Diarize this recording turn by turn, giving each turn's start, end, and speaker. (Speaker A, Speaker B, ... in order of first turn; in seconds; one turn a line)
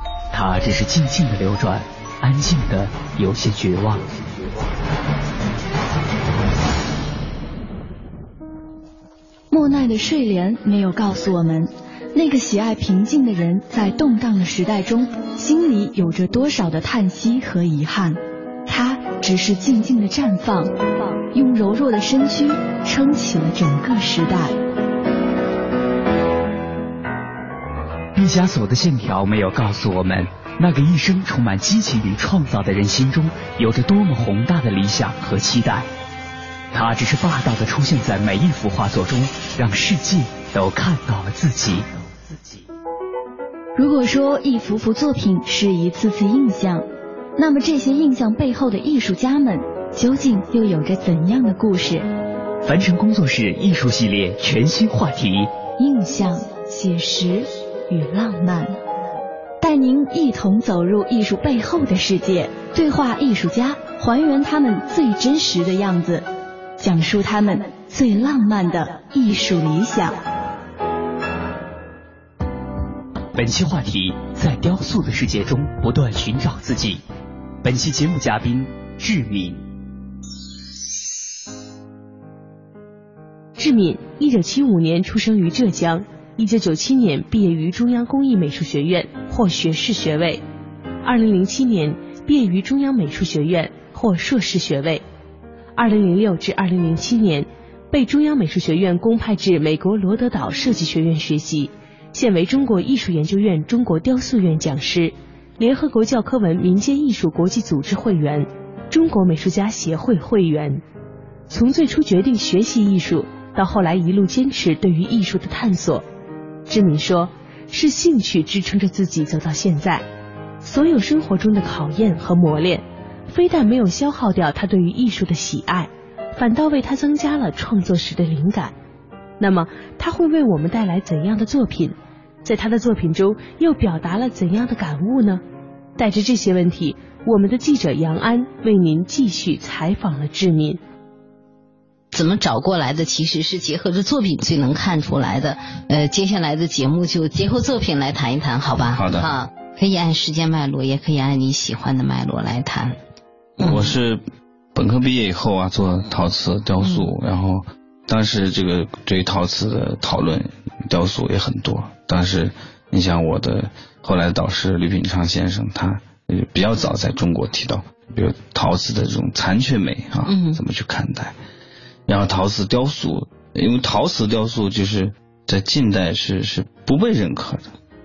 Speaker A: 0.3-4.0
Speaker B: 9.5-20.7
Speaker B: 21.3-24.6
Speaker A: 28.1-35.9
Speaker A: 36.7-42.5
Speaker B: 43.8-52.1
Speaker A: 52.6-55.5
Speaker B: 55.8-58.8
Speaker B: 59.6-66.3
Speaker B: 66.8-70.2
Speaker A: 73.3-77.0
Speaker A: 77.6-79.6
Speaker C: 83.6-90.4
Speaker C: 91.0-95.0
Speaker C: 95.8-110.8
Speaker C: 111.5-116.0
Speaker C: 116.7-120.0
Speaker C: 120.6-128.7
Speaker C: 129.4-135.4
Speaker C: 136.0-140.8
Speaker D: 142.1-153.0
Speaker E: 148.9-149.3
Speaker E: 153.6-154.2
Speaker D: 153.6-153.9
Speaker E: 154.8-171.4
Speaker D: 156.8-157.1
Speaker D: 170.3-170.6
Speaker E: 172.1-177.7